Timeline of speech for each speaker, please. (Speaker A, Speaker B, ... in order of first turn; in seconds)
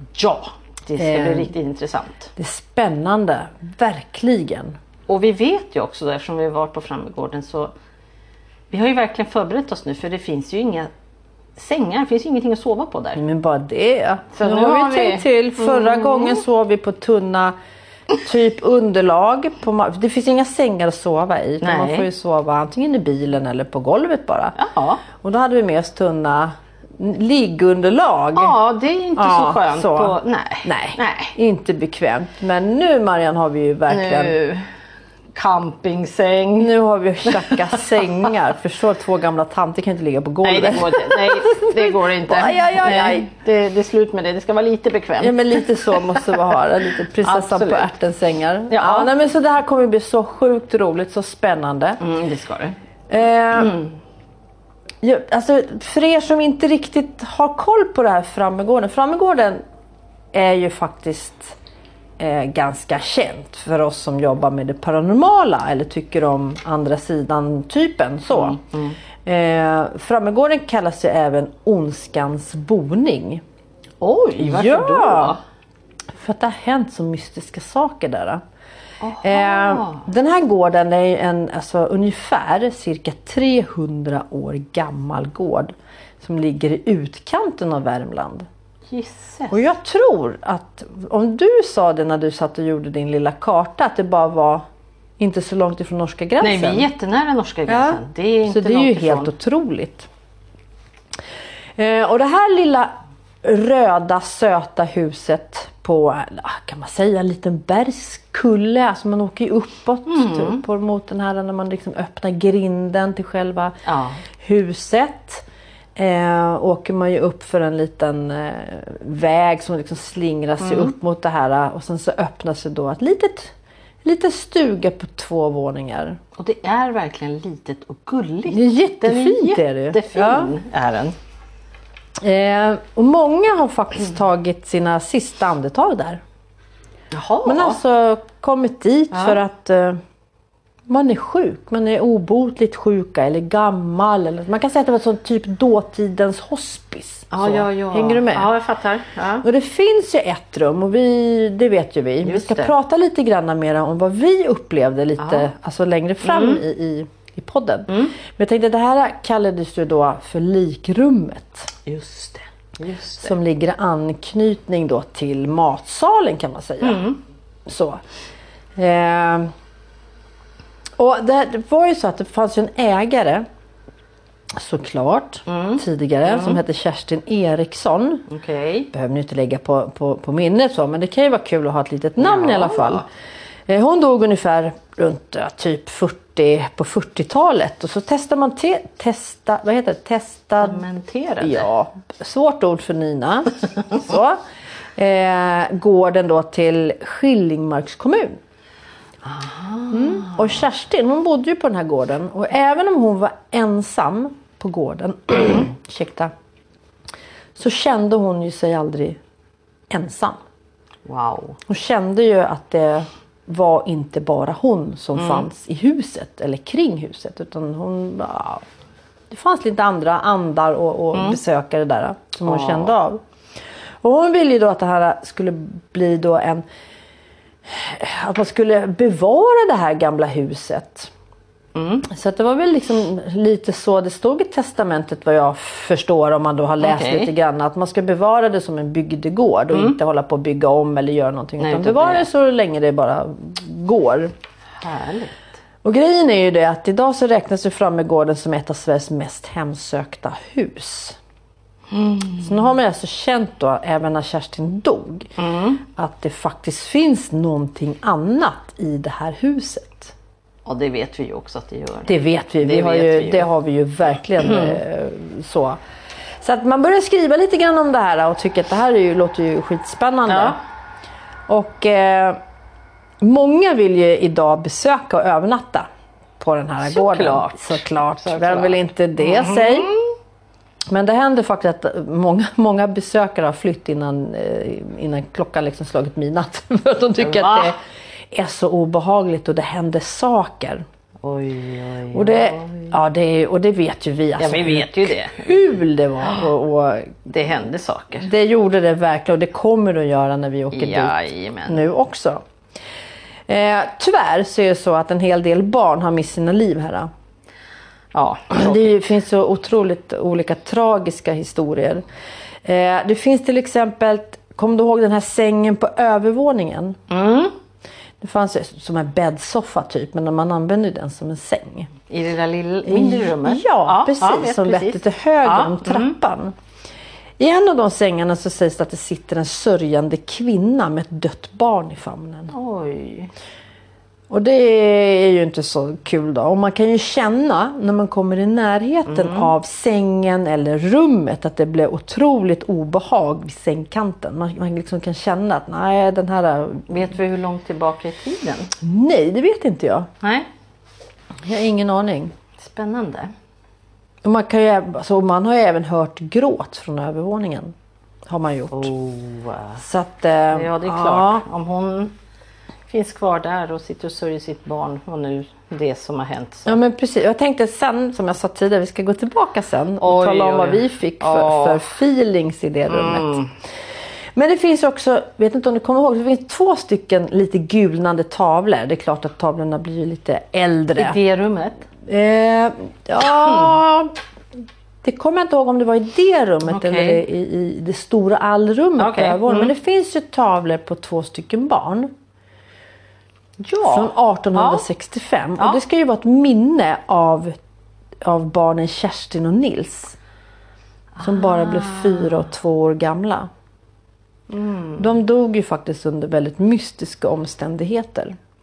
Speaker A: 0.1-2.3, 5.1-7.7, 8.7-10.9, 11.6-13.2, 14.3-16.4, 21.6-22.1, 24.6-25.0, 28.3-31.3, 33.9-34.6, 35.3-36.7, 37.2-38.3, 40.4-46.5, 47.2-47.9, 48.7-49.1, 52.0-52.8, 53.5-53.9, 68.3-69.0, 74.0-75.4, 79.0-80.0, 88.9-89.7, 96.4-99.3, 110.1-110.6, 113.8-114.2, 120.6-120.9, 126.3-131.1, 137.1-137.8, 139.1-139.4, 147.3-149.4, 152.2-152.7, 155.2-155.5, 156.2-156.6, 157.9-158.1, 161.8-163.3, 166.8-167.2, 175.5-176.6, 178.3-178.9, 182.2-183.0, 190.6-191.7, 199.2-200.6, 211.0-211.6, 215.2-215.5, 221.1-221.4, 222.4-222.9, 231.7-232.1, 236.8-237.3, 239.7-240.0, 241.6-242.3, 244.8-245.3, 251.9-252.5, 255.4-255.8, 260.6-263.5, 264.4-264.8, 270.3-270.6, 276.8-280.1, 287.2-287.7, 291.2-292.9, 294.4-295.6, 297.3-298.2, 300.7-301.8, 308.1-308.9, 317.1-317.5, 322.1-326.1, 332.5-333.3, 339.1-339.5, 346.9-348.7, 350.2-350.5, 352.6-353.3, 358.7-359.8, 360.5-362.1, 362.9-366.8, 370.0-371.8, 372.9-373.5, 381.0-381.9, 386.7-387.2, 389.0-389.7, 393.6-394.8, 401.2-402.5, 404.5-405.1
Speaker B: 1.0-1.5, 2.4-4.8, 13.2-17.5, 18.1-24.6, 25.2-28.5, 29.1-34.4, 36.6-43.3, 45.2-52.0, 53.1-53.8, 55.0-59.6, 60.3-61.5, 62.2-68.6, 69.2-73.4, 74.4-75.4, 76.1-78.4, 79.2-88.5, 89.5-94.6, 95.2-96.9, 97.7-100.1, 101.8-113.8, 114.3-115.4, 116.0-123.5, 124.0-126.2, 128.4-130.5, 132.2-136.2, 137.4-140.0, 140.9-148.5, 149.4-161.7, 163.2-167.1, 167.7-168.0, 168.8-169.5, 171.0-173.4, 174.6-178.3, 178.9-183.1, 183.7-190.8, 191.4-194.4, 194.9-198.4, 199.9-206.3, 207.5-209.2, 209.9-210.4, 211.7-218.6, 219.3-223.2, 224.0-226.6, 227.7-231.1, 232.0-244.3, 245.8-251.2, 252.3-260.1, 262.1-265.8, 266.4-270.6, 271.5-272.4, 273.2-275.9, 276.4-279.9, 280.9-287.8, 288.3-290.8, 292.1-297.3, 298.2-302.4, 303.5-307.1, 308.5-312.0, 312.6-317.0, 318.2-321.9, 322.9-326.5, 327.4-332.5, 334.3-346.9, 348.8-350.1, 351.4-352.3, 354.2-357.7, 358.3-358.9, 359.8-361.4, 366.6-373.4, 374.3-381.2, 382.1-384.1, 385.0-392.1, 393.8-397.6, 398.2-400.2, 401.2-403.5, 405.0-408.4